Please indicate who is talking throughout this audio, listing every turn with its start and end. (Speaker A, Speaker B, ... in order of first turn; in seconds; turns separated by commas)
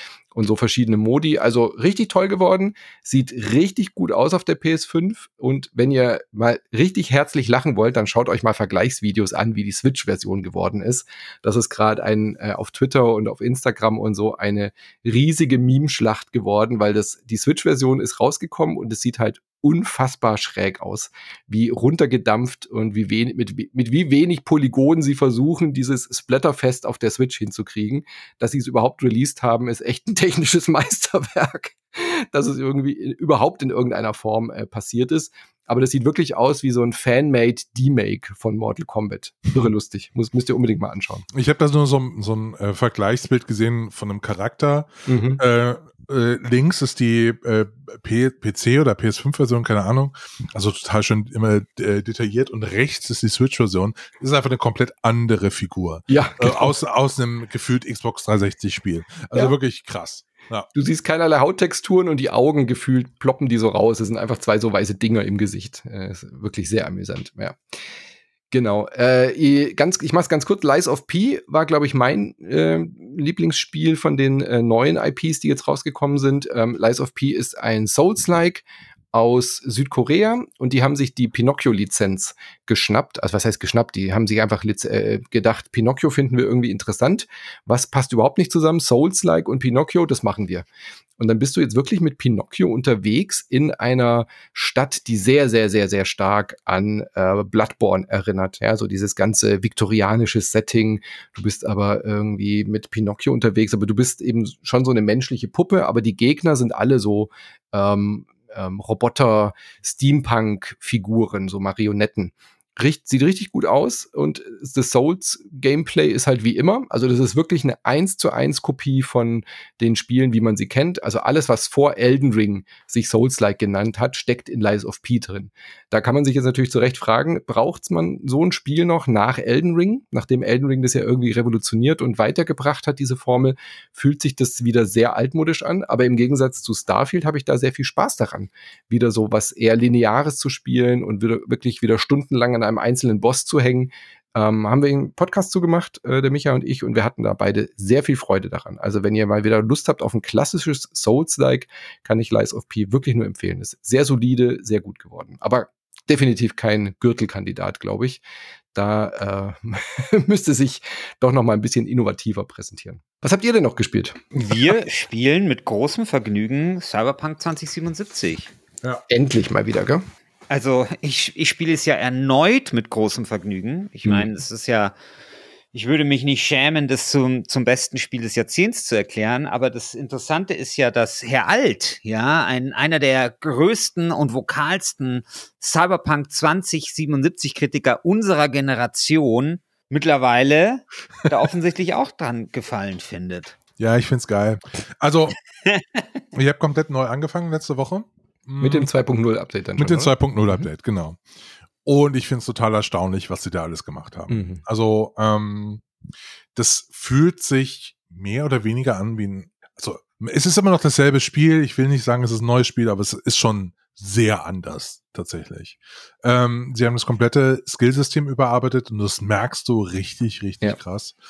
Speaker A: 0.3-41.2, Speaker B: 41.3-60.7, Speaker A: 45.0-45.4, Speaker A: 56.1-56.8, Speaker A: 60.7-67.6, Speaker A: 68.5-90.7, Speaker A: 91.2-158.2, Speaker A: 158.7-164.7, Speaker C: 164.3-168.5, Speaker A: 169.1-170.0, Speaker C: 170.5-174.9, Speaker A: 174.0-174.3, Speaker C: 175.7-193.6, Speaker B: 193.8-195.4, Speaker C: 195.7-196.0, Speaker B: 196.3-198.9, Speaker A: 198.6-200.7, Speaker B: 199.8-201.2, Speaker B: 201.8-205.8, Speaker A: 204.3-204.6, Speaker B: 206.5-221.1